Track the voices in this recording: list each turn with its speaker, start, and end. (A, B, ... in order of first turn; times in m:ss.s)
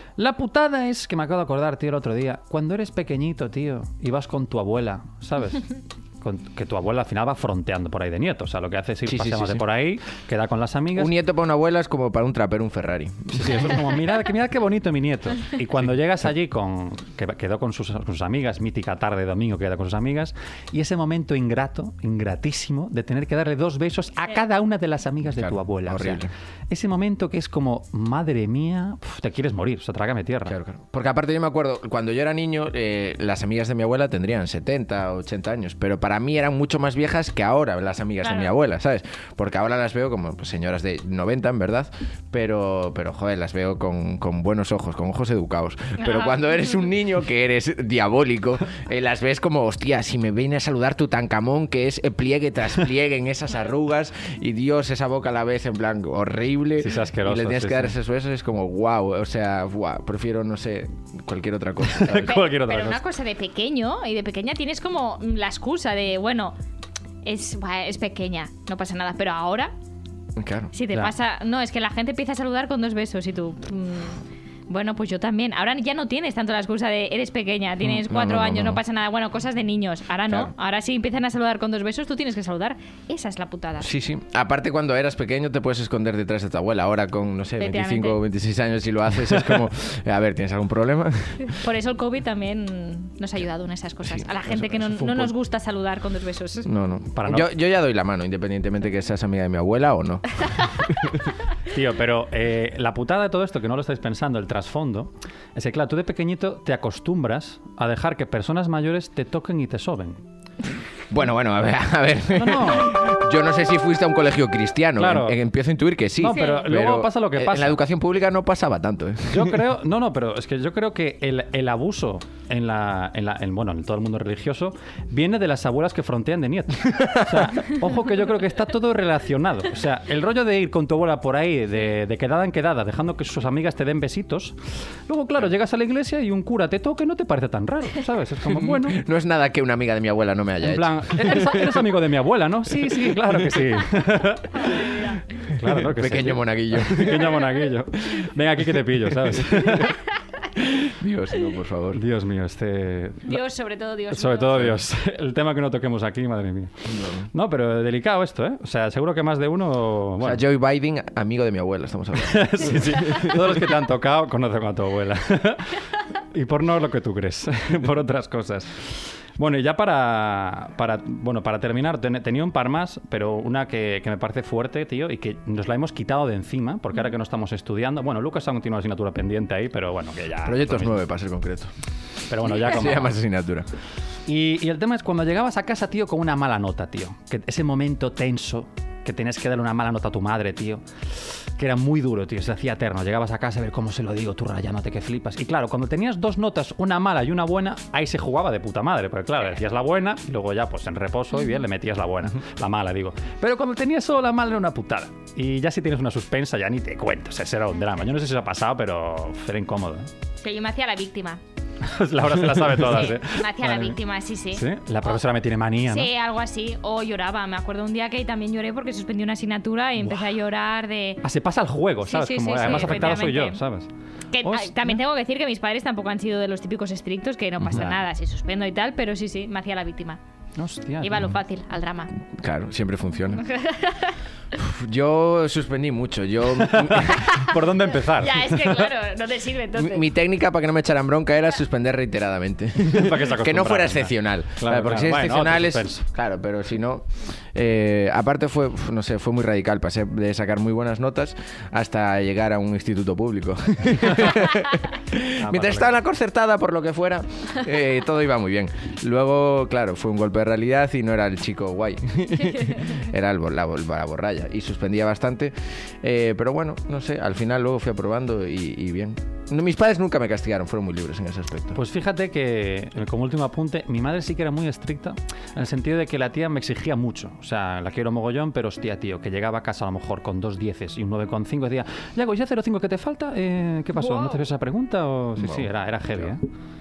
0:00.2-0:11.1 A
0:09.1-0:09.6 B
0:10.9-0:13.8 B
0:13.3-0:30.6 A
0:25.2-0:26.3 B
0:30.5-1:02.4 B
0:38.2-0:38.5 C
0:46.0-0:46.5 C
0:56.8-0:57.9 A
1:01.8-1:03.0 A
1:02.1-1:06.6 C
1:07.2-1:09.7 C
1:10.4-1:10.7 B
1:10.7-1:23.9 C
1:18.0-1:18.8 B
1:23.8-1:31.6 B
1:27.6-1:28.2 C
1:31.5-1:36.7 C
1:34.0-1:35.3 B
1:36.6-1:41.3 B
1:37.1-1:37.5 A
1:41.7-1:50.2 A
1:51.1-1:59.6 B
1:52.3-1:53.0 A
1:55.0-1:55.4 A
1:56.2-1:57.8 A
1:56.4-1:56.6 C
1:59.3-2:19.0 A
2:18.5-2:21.8 B
2:20.6-2:24.7 A
2:24.5-2:25.2 C
2:25.5-2:30.0 A
2:25.6-2:27.4 B
2:30.6-2:32.0 B
2:31.9-2:33.4 A
2:33.2-2:34.6 C
2:34.1-2:36.7 A
2:36.9-2:37.3 B
2:37.3-2:40.4 A
2:40.2-2:43.6 B
2:42.2-3:01.0 A
3:00.4-3:01.7 B
3:02.3-3:03.1 A
3:02.4-3:03.7 B
3:04.3-3:30.1 A
3:30.4-3:31.4 C
3:31.8-3:34.0 A
3:32.9-3:35.2 C
3:34.5-3:36.1 A
3:35.8-3:41.2 C
3:41.2-3:43.9 A
3:42.0-3:43.6 C
3:44.3-3:50.2 C
3:44.4-3:45.0 A
3:47.6-3:48.0 A
3:50.6-3:51.3 A
3:51.0-3:52.1 C
3:52.3-3:53.5 B
3:53.3-3:54.2 C
3:54.5-3:57.3 B
3:56.6-3:58.9 A
3:58.0-4:00.1 C
3:59.8-4:31.8 B
4:02.8-4:06.0 A
4:15.4-4:15.9 A
4:31.8-4:46.4 A
4:44.0-4:44.4 C
4:45.4-4:46.3 B